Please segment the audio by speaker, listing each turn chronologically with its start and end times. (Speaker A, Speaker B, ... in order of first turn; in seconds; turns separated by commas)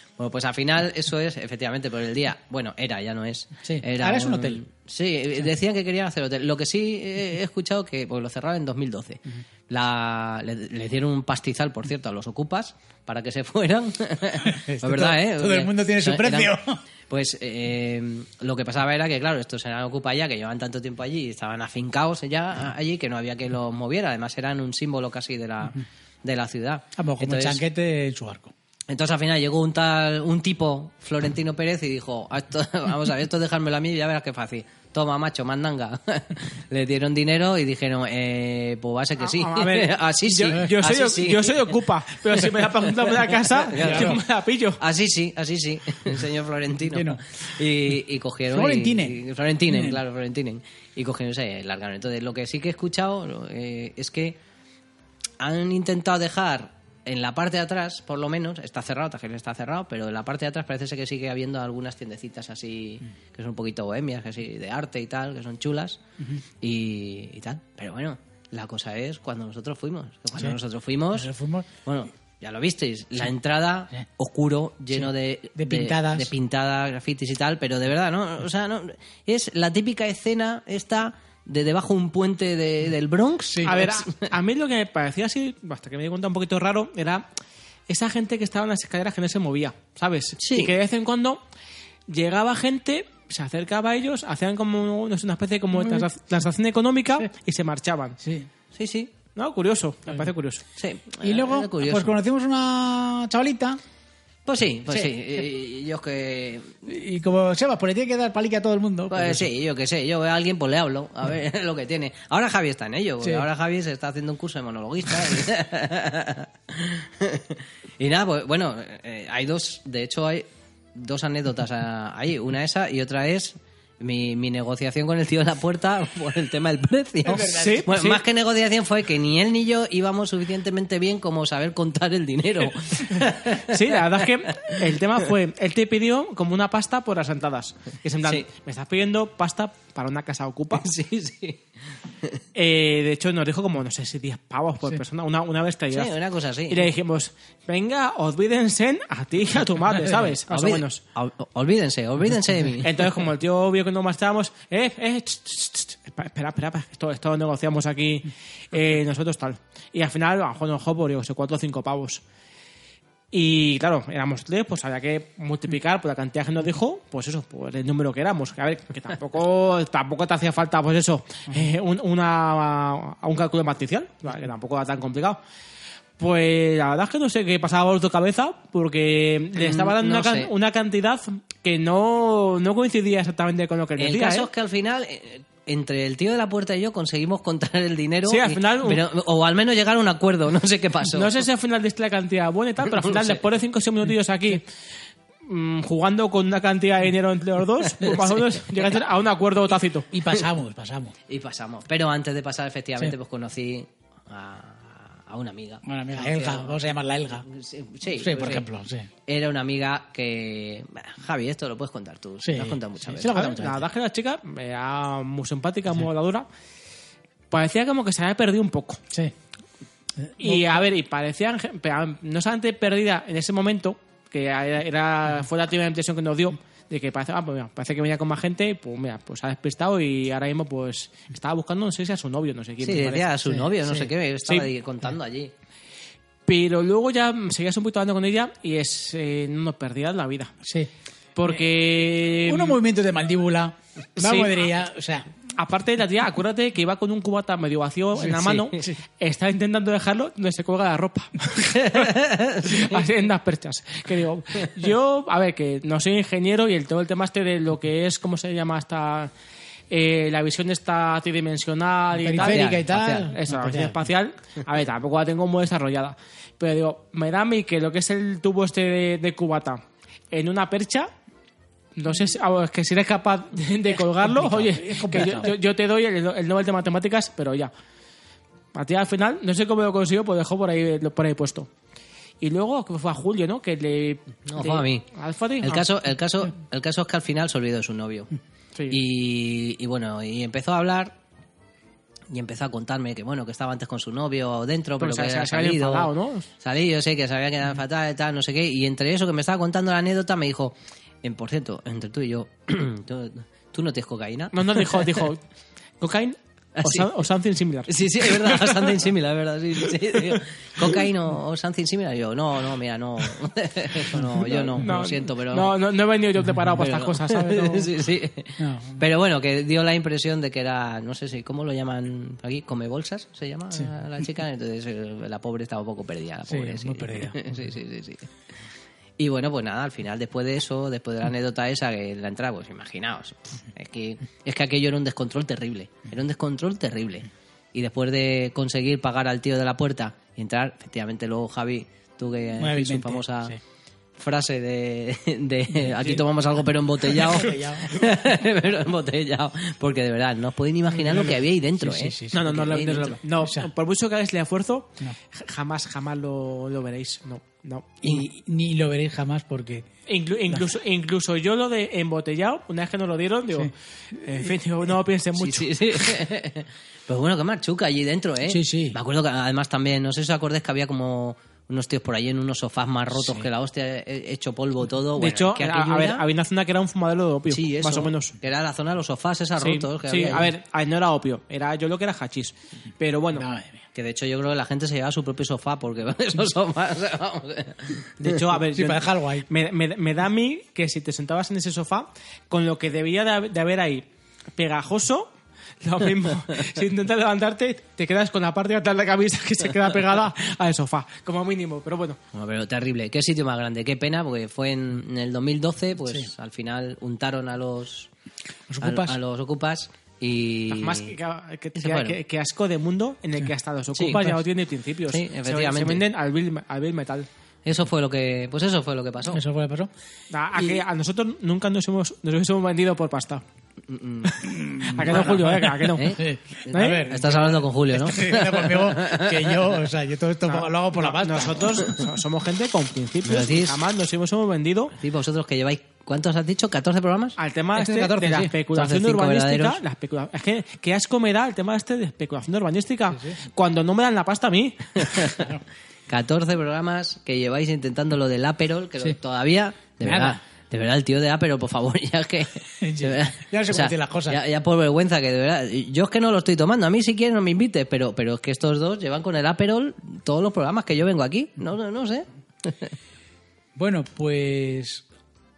Speaker A: 0.2-16.6, Speaker B: 3.6-4.6, Speaker B: 14.4-16.8, Speaker A: 17.1-27.6, Speaker B: 27.0-28.5, Speaker A: 28.9-41.7, Speaker C: 39.2-44.8, Speaker A: 43.3-44.2, Speaker B: 43.8-44.2, Speaker A: 44.8-54.4, Speaker B: 46.9-47.2, Speaker B: 48.5-50.0, Speaker A: 55.4-66.0, Speaker A: 66.6-71.3, Speaker B: 71.1-71.7, Speaker A: 71.8-84.3, Speaker B: 75.0-76.3, Speaker C: 83.6-87.2, Speaker C: 87.9-91.4, Speaker A: 90.4-90.7, Speaker C: 92.1-98.2, Speaker B: 95.8-96.1, Speaker B: 98.2-98.5, Speaker A: 98.7-99.1, Speaker C: 99.4-100.6, Speaker A: 100.8-102.1, Speaker B: 101.2-103.8, Speaker A: 104.5-106.8, Speaker B: 106.8-109.5, Speaker A: 109.1-134.8, Speaker B: 127.2-127.9, Speaker C: 127.4-128.2, Speaker C: 133.1-140.9, Speaker A: 140.8-141.6, Speaker C: 142.5-146.2, Speaker A: 145.9-146.9, Speaker C: 146.7-151.0, Speaker A: 150.5-153.0, Speaker C: 152.8-162.2, Speaker C: 163.3-175.4, Speaker C: 176.2-184.5, Speaker A: 179.6-180.5, Speaker A: 184.0-191.4, Speaker C: 188.3-189.0, Speaker C: 191.1-194.6, Speaker A: 192.9-193.4, Speaker C: 195.5-200.1, Speaker B: 200.1-201.2, Speaker A: 201.3-206.8, Speaker B: 205.8-207.5, Speaker A: 207.4-208.7, Speaker B: 208.1-209.1, Speaker A: 209.3-213.3, Speaker B: 212.4-213.9, Speaker C: 213.2-216.5, Speaker C: 217.5-219.0, Speaker B: 220.2-220.8, Speaker C: 220.4-233.4, Speaker A: 232.8-235.5, Speaker B: 233.5-234.1, Speaker C: 236.5-240.5, Speaker B: 240.6-240.9, Speaker C: 241.4-242.8, Speaker B: 242.5-245.3, Speaker C: 244.2-244.6, Speaker C: 245.5-259.3, Speaker B: 248.2-249.0, Speaker A: 251.7-253.0, Speaker C: 259.9-271.1, Speaker B: 262.1-264.0, Speaker A: 262.4-263.3, Speaker C: 272.0-277.7, Speaker B: 274.2-275.5, Speaker C: 278.7-281.7, Speaker C: 282.4-285.9, Speaker A: 284.5-285.1, Speaker A: 285.6-288.3, Speaker A: 288.9-291.2, Speaker A: 292.3-305.3, Speaker C: 295.0-296.5, Speaker C: 304.5-305.4, Speaker C: 306.0-309.0, Speaker A: 306.8-307.1, Speaker A: 307.9-315.7, Speaker C: 314.5-317.9, Speaker A: 316.8-328.3, Speaker B: 318.6-319.0, Speaker B: 326.5-327.6, Speaker A: 329.2-343.6, Speaker B: 342.6-343.6, Speaker A: 344.2-353.2, Speaker B: 347.1-348.1, Speaker B: 351.0-352.5, Speaker C: 352.3-358.0, Speaker B: 353.4-353.7, Speaker B: 358.0-359.9, Speaker C: 360.1-366.2, Speaker A: 365.4-376.2, Speaker B: 368.4-369.0, Speaker C: 375.2-378.4, Speaker A: 377.5-380.5, Speaker C: 379.6-383.5, Speaker B: 383.4-383.8, Speaker A: 383.9-388.4, Speaker C: 388.2-394.0, Speaker B: 388.6-389.5, Speaker C: 394.6-395.3, Speaker C: 395.8-402.2, Speaker A: 402.3-408.1, Speaker B: 408.7-409.2, Speaker A: 408.8-411.1, Speaker C: 410.7-417.3, Speaker A: 411.8-412.2, Speaker A: 413.9-414.2, Speaker B: 414.1-414.4, Speaker A: 415.1-416.0, Speaker A: 417.6-419.4, Speaker B: 419.3-419.9, Speaker C: 420.3-423.4, Speaker A: 423.9-425.3, Speaker B: 424.4-431.9, Speaker C: 424.8-426.2, Speaker A: 425.9-429.6, Speaker C: 426.7-427.1, Speaker C: 430.5-434.9, Speaker A: 433.2-433.8, Speaker A: 435.0-437.4, Speaker C: 437.4-445.5, Speaker B: 437.8-438.5, Speaker A: 438.7-439.8, Speaker B: 443.1-443.4, Speaker A: 445.0-445.6, Speaker A: 446.1-462.9, Speaker B: 450.0-450.4, Speaker B: 452.8-454.4, Speaker B: 463.8-465.1